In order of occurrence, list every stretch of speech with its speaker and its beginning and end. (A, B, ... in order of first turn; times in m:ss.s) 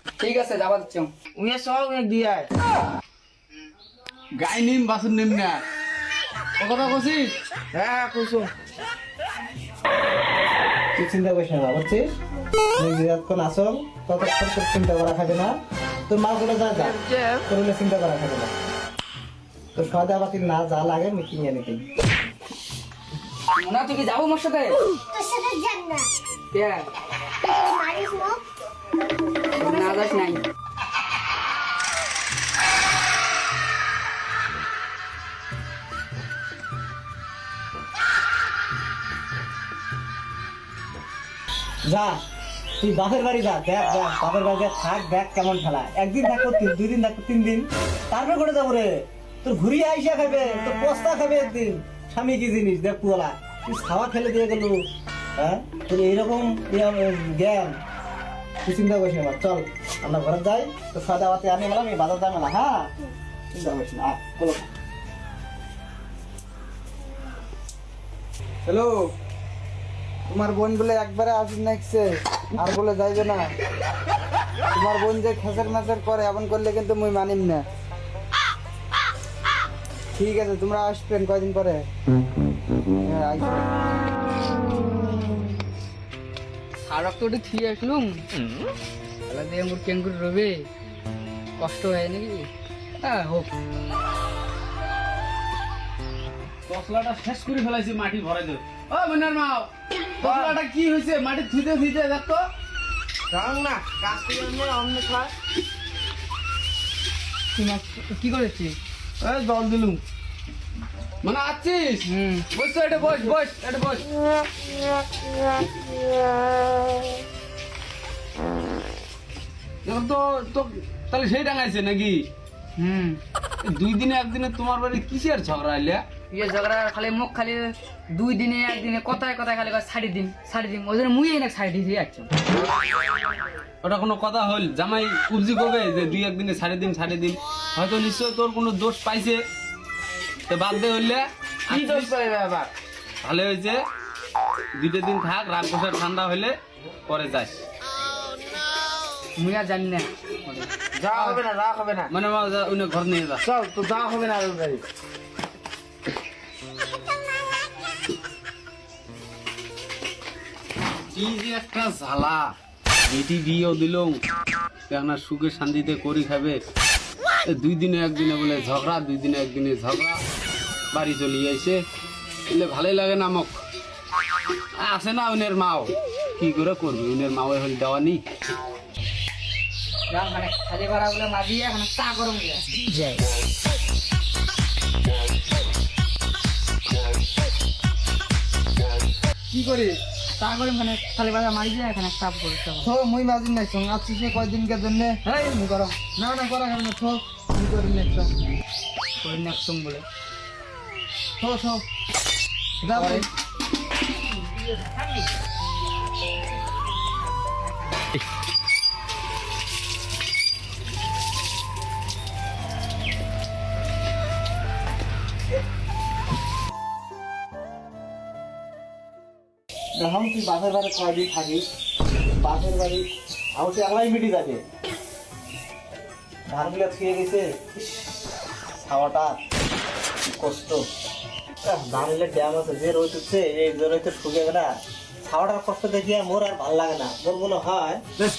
0:00.2-0:01.1 A
0:01.3-0:02.5 B
0:04.4-0:05.6 C
0:06.6-0:07.4 C
0:07.7-0:08.5 B
0:10.9-0:12.0 D
0:12.8-0:15.5 D
0:16.1-0:18.5 D
0:16.8-0:17.4 B
0:19.7-0:21.8 D
0:23.6-0:24.8 A
0:25.1-0:26.1 E
0:26.5-0:26.9 A
0:27.4-0:28.4 E
0:29.6-0:30.4 A
0:29.6-0:30.4 E
0:41.9-0:42.2 D
0:42.8-0:48.9 D
0:49.4-0:54.8 D
0:55.4-0:57.8 D
0:58.6-1:02.9 D
1:03.5-1:04.6 D
1:08.6-1:09.1 F
1:10.3-1:13.5 F
1:14.7-1:17.6 F
1:20.2-1:21.8 F
1:23.0-1:23.6 F
1:26.8-1:28.2 A
1:29.3-1:30.6 A
1:31.6-1:33.5 A
1:36.7-1:42.4 C
1:40.2-1:40.6 B
1:43.3-1:45.3 B
1:47.5-1:48.8 A
1:49.2-1:50.0 B
1:51.2-1:54.0 C
1:52.0-1:52.5 A
1:59.8-2:02.2 C
2:02.8-2:03.2 A
2:03.6-2:06.0 C
2:06.3-2:12.3 A
2:13.8-2:19.4 C
2:20.5-2:22.2 C
2:21.7-2:22.7 B
2:23.2-2:23.8 C
2:24.8-2:26.5 C
2:27.1-2:27.6 C
2:29.4-2:31.4 A
2:31.0-2:32.1 B
2:32.1-2:33.4 C
2:33.4-2:34.8 B
2:41.1-2:42.5 C
2:43.1-2:44.2 C
2:44.9-2:46.6 C
2:47.5-2:50.2 C
2:50.9-2:51.8 C
2:52.5-2:53.5 C
2:54.8-2:58.2 C
3:00.1-3:02.7 A
3:09.5-3:10.0 F
3:10.4-3:12.9 A
3:12.8-3:15.2 F
3:15.3-3:16.0 A
3:16.0-3:18.3 F
3:19.2-3:20.0 A
3:21.4-3:21.8 F
3:22.8-3:23.3 F
3:22.9-3:23.2 A
3:40.0-3:41.6 D
3:42.4-3:44.6 D
3:46.5-3:48.1 D
3:48.8-3:49.4 D
3:50.2-3:50.8 D
3:51.6-3:58.0 D